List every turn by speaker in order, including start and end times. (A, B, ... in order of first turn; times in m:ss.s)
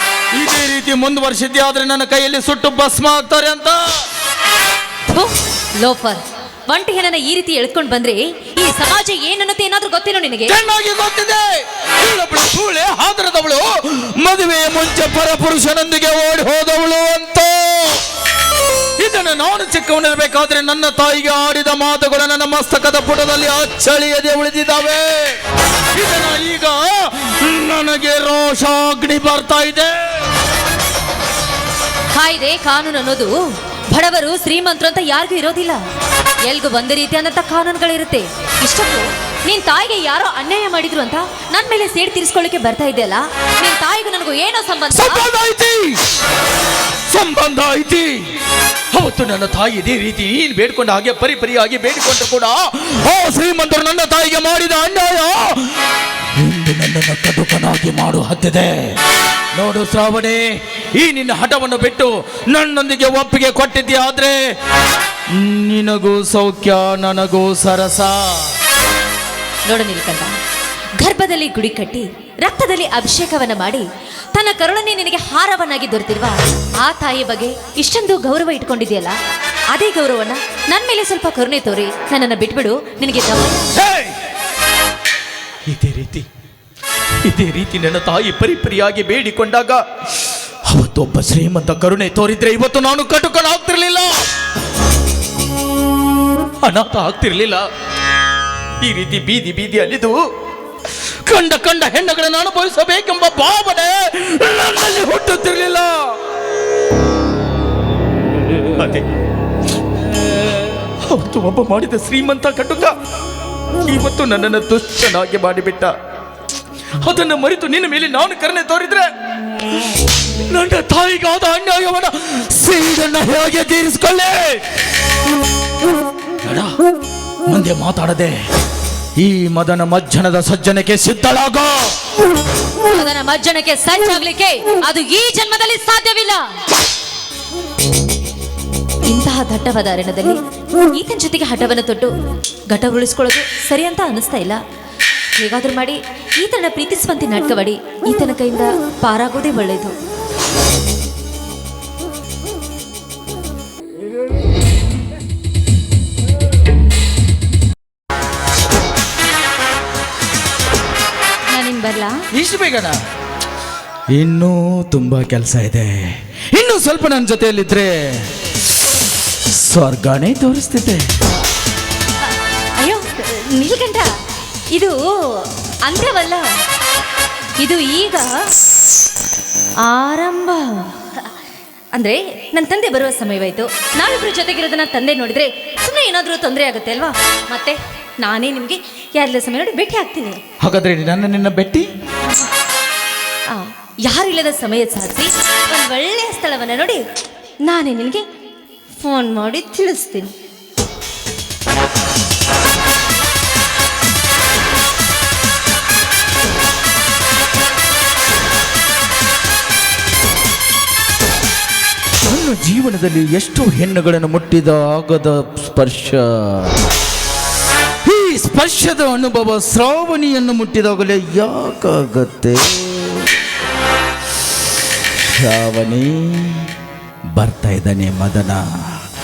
0:00.3-0:03.8 A
0:05.1-0:10.6 B
0:10.5-0:18.0 A
0:19.0-0:25.4 A
0:25.9-0:30.3 A
0:32.1-0:33.4 B
0:33.9-0:35.8 B
0:36.4-0:45.2 B
0:44.9-0:46.0 A
0:47.1-0:48.3 A
0:48.9-0:59.0 A
0:59.5-1:04.4 A
1:05.4-1:08.5 A
1:09.7-1:10.3 B
1:11.0-1:19.2 B
1:19.7-1:23.8 B
1:23.7-1:24.2 A
1:25.7-1:26.3 A
1:27.2-1:34.2 A
1:36.6-1:37.6 A
1:38.8-1:40.2 A
1:41.2-1:46.2 A
1:48.8-1:49.1 A
1:51.0-1:52.9 A
1:53.8-1:55.9 A
1:57.0-1:59.1 A
2:00.4-2:04.6 A
2:06.4-2:06.8 A
2:07.4-2:08.4 A
2:09.2-2:12.0 A
2:12.9-2:16.5 B
2:19.0-2:22.1 B
2:22.7-2:24.6 B
2:25.4-2:30.0 B
2:41.5-2:42.2 B
2:42.3-2:43.0 A
2:44.1-2:48.3 A
2:49.5-2:51.0 A
2:52.8-2:54.1 B
2:54.7-2:56.5 B
2:57.6-2:58.5 B
2:59.8-3:01.3 B
3:02.0-3:10.4 B
3:10.6-3:11.9 A
3:13.5-3:17.0 B
3:17.6-3:18.3 B
3:19.0-3:20.3 B
3:32.3-3:36.7 A
3:38.0-3:43.4 A
3:45.3-3:46.7 A
3:47.4-3:48.6 A